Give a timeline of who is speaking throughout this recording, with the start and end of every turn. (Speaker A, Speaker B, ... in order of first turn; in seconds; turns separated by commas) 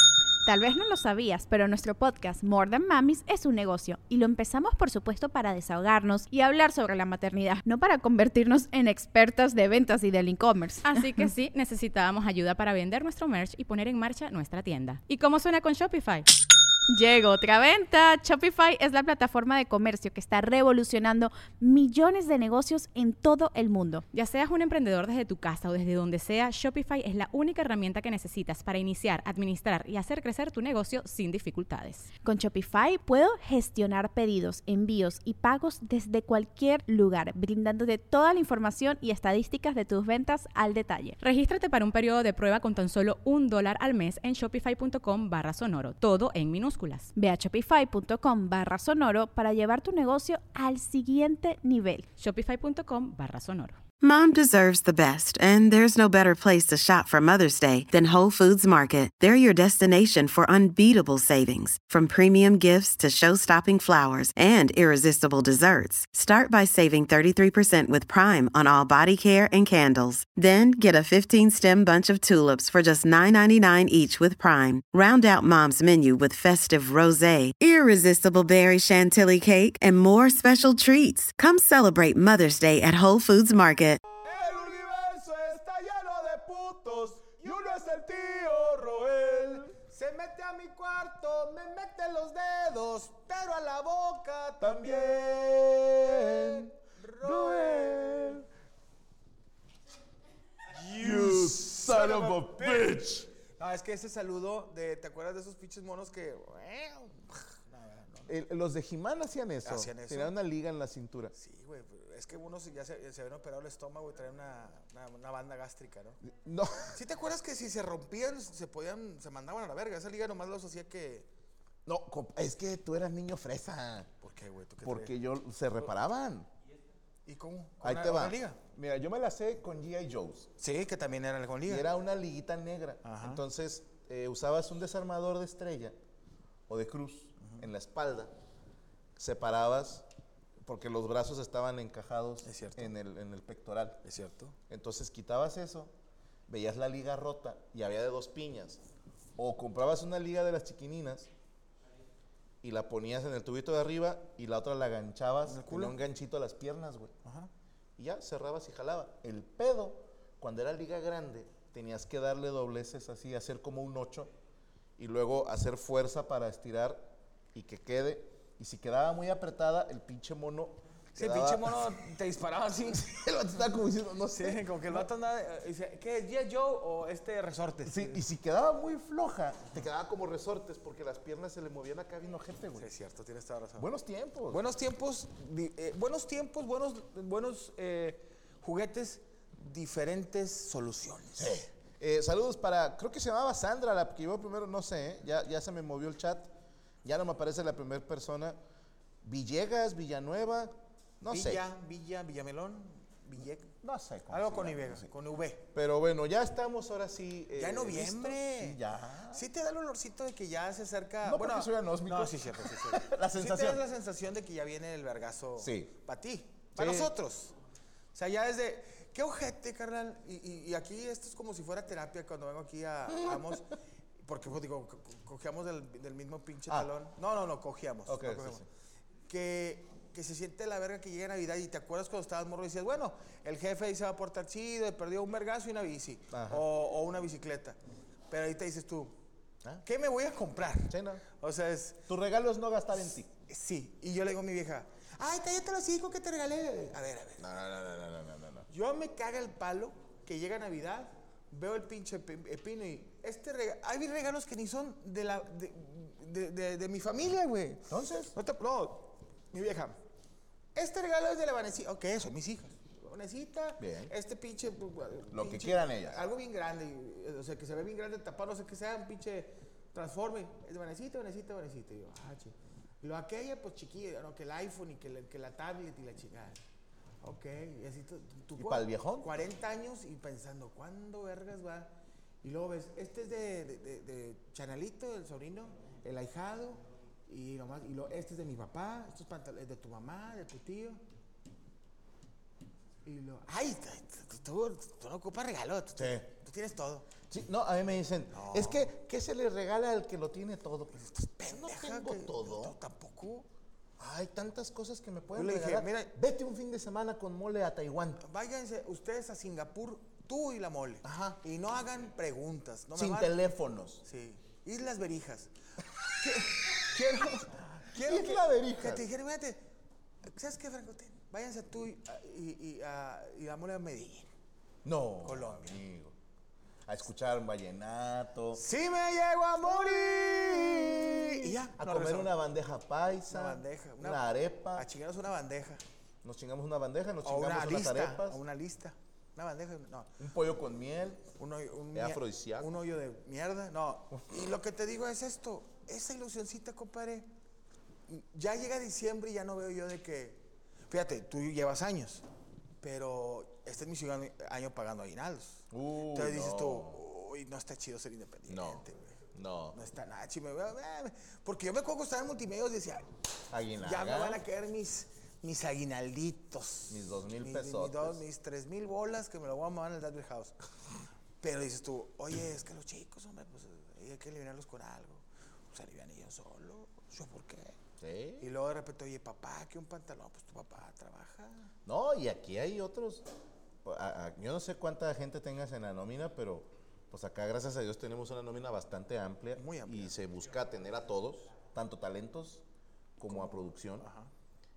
Speaker A: 0.5-11.0, Speaker B: 10.8-16.3, Speaker A: 16.9-24.0, Speaker B: 24.1-32.1, Speaker A: 32.2-41.2, Speaker B: 41.2-47.1, Speaker A: 47.1-52.0, Speaker B: 52.2-53.8, Speaker C: 54.0-84.0, Speaker D: 84.1-98.4, Speaker E: 87.4-89.7, Speaker E: 94.6-98.5, Speaker D: 100.7-103.0, Speaker E: 101.0-103.3, Speaker D: 103.6-108.4, Speaker E: 108.3-111.3, Speaker D: 109.7-110.3, Speaker D: 111.3-116.2, Speaker E: 116.2-117.0, Speaker D: 116.9-121.3, Speaker E: 121.9-124.1, Speaker D: 124.2-125.2, Speaker E: 124.8-126.5, Speaker D: 127.3-128.6, Speaker E: 127.8-130.5, Speaker D: 130.6-131.9, Speaker E: 131.7-136.0, Speaker D: 133.0-133.4, Speaker E: 136.7-138.3, Speaker E: 139.2-140.1, Speaker E: 140.6-144.0, Speaker D: 142.4-142.9, Speaker D: 144.0-144.6, Speaker E: 144.7-145.9, Speaker E: 146.5-148.8, Speaker E: 149.4-151.3, Speaker E: 152.6-157.1, Speaker D: 155.4-156.0, Speaker D: 157.2-157.5, Speaker E: 158.0-164.3, Speaker E: 165.0-171.9, Speaker D: 171.2-173.2, Speaker E: 173.1-175.1, Speaker D: 174.3-178.2, Speaker E: 177.8-182.9, Speaker D: 182.8-183.9, Speaker E: 183.8-184.7, Speaker D: 184.5-191.6, Speaker E: 191.4-196.5, Speaker E: 197.0-198.6, Speaker E: 199.2-201.7, Speaker D: 201.3-203.7, Speaker E: 203.8-205.1, Speaker D: 204.3-205.7, Speaker E: 205.7-209.5, Speaker D: 207.6-208.8, Speaker D: 209.3-217.6, Speaker E: 211.2-213.8, Speaker E: 215.6-216.0, Speaker E: 216.8-217.1, Speaker D: 218.1-223.7, Speaker E: 223.1-223.6, Speaker D: 224.2-228.7, Speaker E: 228.1-228.7, Speaker D: 229.3-237.8, Speaker E: 236.3-236.7, Speaker D: 238.3-239.1, Speaker D: 239.8-242.0, Speaker E: 240.8-241.2, Speaker E: 242.1-243.3, Speaker D: 243.5-247.4, Speaker E: 247.4-248.7, Speaker D: 248.7-260.0, Speaker E: 257.9-258.4, Speaker D: 260.8-276.6, Speaker E: 263.8-264.1, Speaker E: 265.3-266.2, Speaker D: 277.2-291.0, Speaker E: 278.6-279.4, Speaker D: 293.1-297.1, Speaker E: 296.0-296.3, Speaker E: 297.3-302.8, Speaker D: 298.3-298.9, Speaker D: 301.0-303.5, Speaker E: 304.0-308.2, Speaker D: 305.4-306.1, Speaker D: 308.2-313.4, Speaker E: 311.0-311.4, Speaker E: 312.9-314.1, Speaker D: 314.1-315.5, Speaker D: 316.1-319.6, Speaker E: 317.9-319.1, Speaker D: 320.3-324.3, Speaker E: 324.8-326.1, Speaker D: 325.2-325.8, Speaker E: 326.9-328.6, Speaker D: 328.5-332.3, Speaker E: 329.6-334.9, Speaker D: 333.3-335.8, Speaker E: 336.2-338.4, Speaker D: 337.2-340.1, Speaker E: 340.2-341.2, Speaker D: 341.4-347.3, Speaker E: 341.9-342.7, Speaker D: 348.1-352.2, Speaker D: 352.8-359.2, Speaker E: 355.7-357.0, Speaker E: 358.5-359.8, Speaker D: 359.7-363.1, Speaker E: 363.5-364.4, Speaker D: 363.8-370.6, Speaker E: 366.9-368.2, Speaker D: 371.4-377.8, Speaker E: 378.0-378.5, Speaker D: 378.4-381.7, Speaker E: 381.9-383.2, Speaker E: 383.8-392.6, Speaker D: 389.6-390.1, Speaker E: 393.2-394.1, Speaker D: 393.3-394.3